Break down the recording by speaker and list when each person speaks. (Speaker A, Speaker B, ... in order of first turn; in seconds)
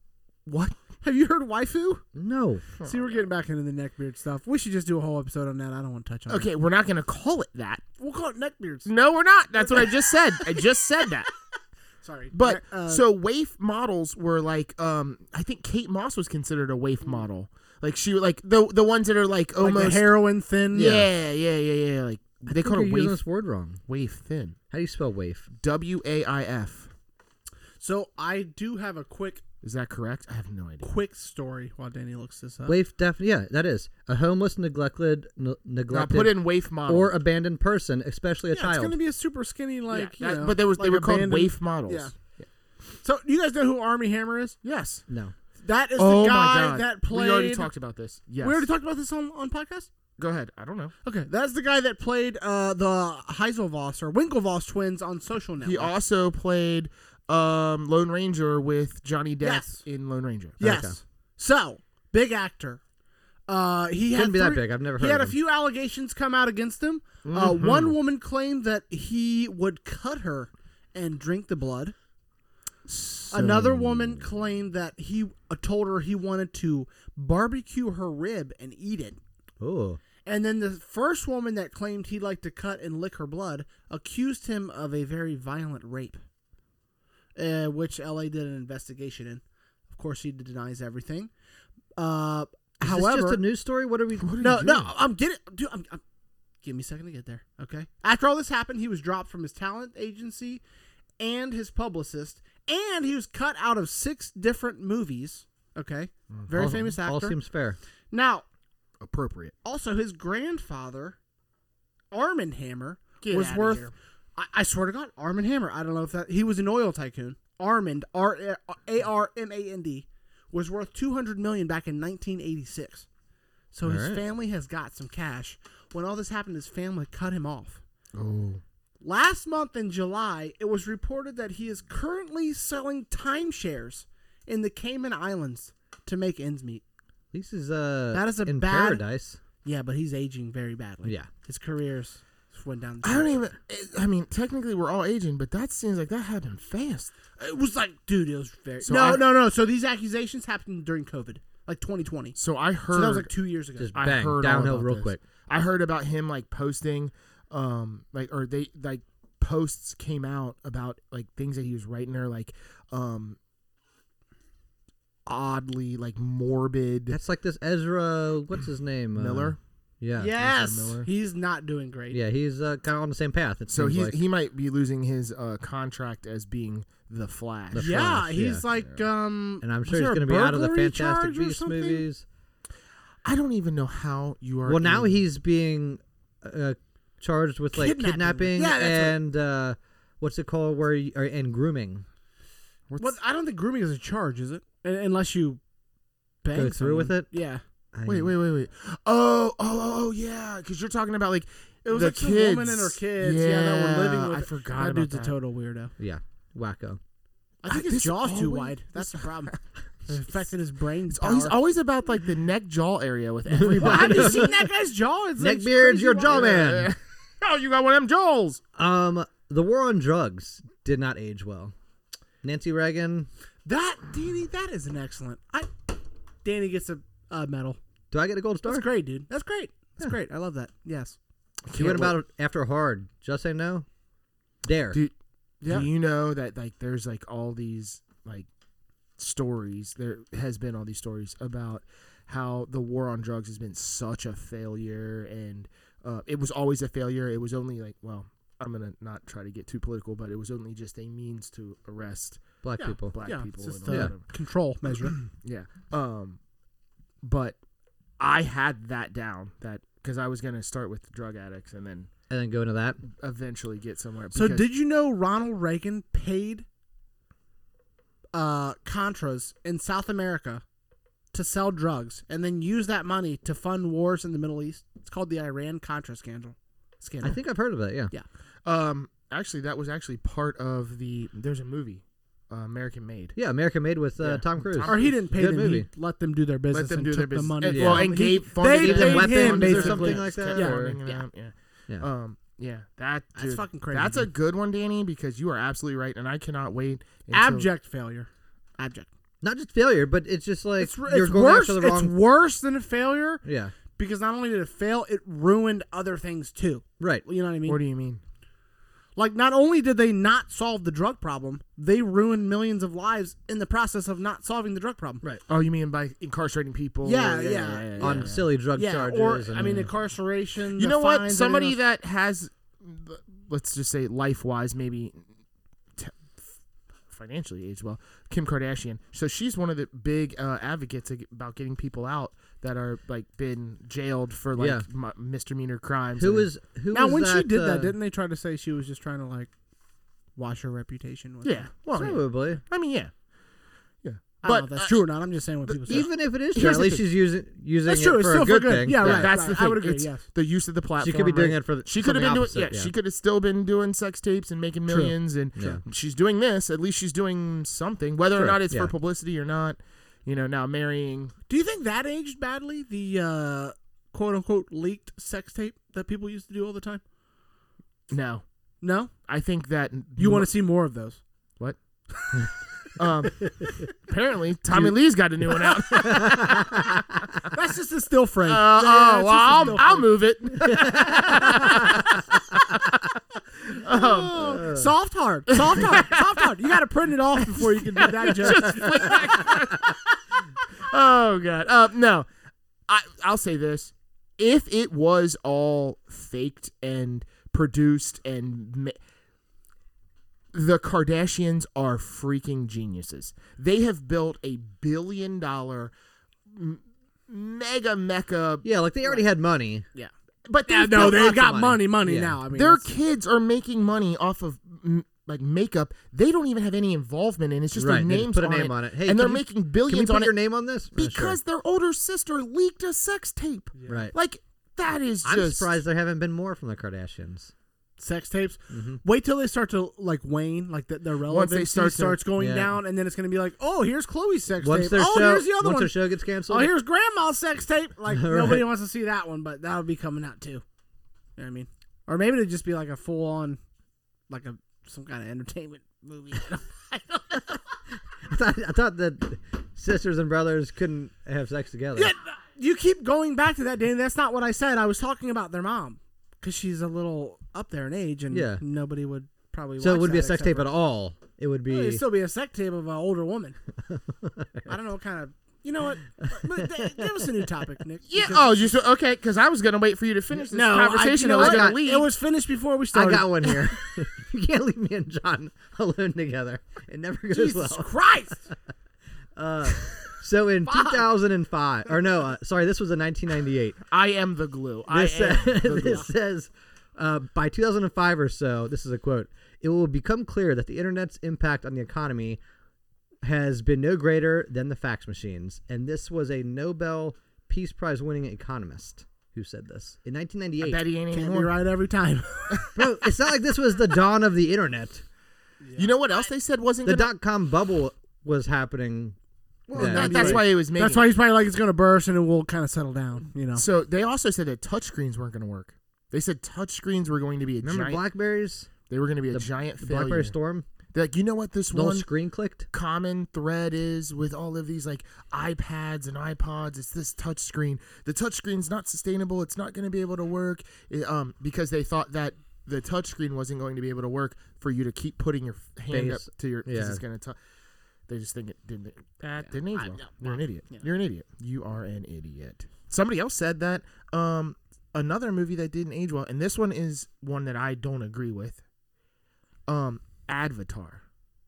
Speaker A: 0.5-0.8, 6.3-7.8, 8.9-11.3, 12.3-20.1, 20.7-23.2, 23.9-24.6, 25.5-26.9, 29.6-30.9, 35.9-37.2, 39.9-42.5, 44.6-45.0, 46.0-48.6, 50.2-50.9, 55.6-60.6, 67.2-68.0, 72.9-74.2, 94.2-94.9, 109.0-109.5, 113.2-113.9, 128.1-128.6, 143.0-147.1, 148.8-149.3, 152.4-153.3, 153.9-163.4, 165.3-167.2, 169.2-169.6, 170.4-171.1, 173.7-178.2, 178.7-179.1, 183.2-185.2, 192.9-193.2, 198.1-205.3, 207.7-209.6, 211.1-214.6, 216.3-218.6, 231.7-232.2, 234.9-238.5, 239.2-252.5, 253.1-254.2, 255.3-256.4, 257.2-257.6, 258.2-262.1, 263.1-264.7, 278.6-283.4, 284.2-285.2, 286.7-297.7, 307.6-308.2, 315.5-318.5, 320.8-325.2, 326.0-326.5, 327.1-336.5, 341.4-343.1, 344.0-345.1, 345.7-347.0, 349.0-361.3, 368.1-368.4, 369.2-370.5, 373.0-376.8, 378.5-382.2, 383.7-384.7, 385.6-386.1, 387.5-390.1, 390.9-392.3, 392.9-399.0, 400.5-405.9, 406.5-408.7, 410.5-411.4, 412.5-420.4, 420.9-425.7, 431.3-432.2, 468.1-472.1, 483.9-486.1, 500.6-501.6, 505.8-507.1, 509.7-511.1, 513.5-518.0, 518.9-520.3, 520.9-522.1, 522.7-537.4, 538.1-548.6, 549.7-551.0
Speaker B: 1.0-2.0, 2.8-6.5, 8.0-8.9, 12.0-13.0, 19.6-21.0, 27.8-29.4, 30.8-32.8, 38.5-42.1, 43.0-44.6, 45.6-47.7, 48.4-49.9, 51.0-55.9, 59.4-59.8, 60.6-62.8, 63.5-72.0, 73.3-79.2, 80.2-86.2, 87.4-91.3, 92.0-93.4, 94.4-96.0, 96.6-100.6, 101.2-107.4, 108.1-108.5, 109.6-111.2, 112.1-123.1, 123.7-127.8, 129.0-136.8, 138.1-139.0, 139.6-143.3, 147.4-152.4, 152.9-153.9, 170.2-172.2, 177.7-182.1, 187.7-189.2, 193.0-195.6, 196.4-197.6, 201.8-205.9, 207.6-211.6, 213.7-216.6, 223.7-227.8, 228.7-231.2, 235.6-235.9, 252.8-255.2, 264.3-266.6, 268.3-270.6, 271.3-277.4, 284.9-291.3, 293.4-294.3, 297.3-299.1, 300.8-303.4, 304.0-307.8, 309.2-315.2, 317.0-321.8, 336.9-339.5, 340.4-341.7, 344.4-346.1, 347.9-350.2, 361.5-367.0, 368.8-369.1, 370.2-371.2, 377.5-380.1, 383.8-389.6, 410.7-412.9, 423.8-424.1, 428.0-440.6, 441.4-443.6, 444.3-447.6, 451.9-460.7, 461.7-463.6, 464.7-468.8, 470.5-473.7, 477.3-478.5, 480.7-481.0, 501.1-502.9, 505.6-506.0, 509.7-513.6, 539.8-540.9
Speaker C: 2.1-2.6, 20.8-21.1, 22.5-23.8, 24.7-25.5, 32.7-39.0, 45.1-45.3, 60.6-61.0, 64.1-65.4, 79.6-80.0, 92.8-94.3, 106.5-107.8, 123.8-124.2, 137.3-139.4, 153.8-155.2, 167.1-170.3, 172.1-174.2, 177.7-178.6, 179.6-182.2, 184.7-192.1, 196.5-197.3, 197.9-198.3, 206.0-207.0, 213.5-214.6, 215.4-216.9, 218.8-221.7, 222.4-223.3, 228.1-228.9, 231.7-233.9, 234.7-235.0, 252.6-253.2, 253.9-254.1, 262.3-263.0, 277.2-278.1, 283.4-285.9, 287.7-288.1, 288.7-291.0, 299.4-302.1, 303.4-303.8, 318.0-319.9, 334.6-334.9, 336.2-337.9, 341.9-342.6, 345.9-349.3, 351.0-352.9, 355.0-355.8, 358.4-358.9, 375.6-377.0, 380.6-381.9, 384.4-384.9, 408.6-409.9, 410.9-412.4, 417.8-421.4, 423.9-424.1, 425.2-427.5, 428.7-429.0, 432.4-432.7, 434.6-436.7, 438.1-438.7, 448.2-452.1, 458.3-458.6, 459.8-462.0, 463.9-464.7, 466.4-467.4, 471.3-471.8, 472.9-477.9, 479.4-483.8, 484.9-492.4, 493.2-500.8, 502.8-505.0, 506.8-509.2, 509.7-510.5, 517.6-518.7, 519.3-520.7, 521.7-522.7, 535.9-537.0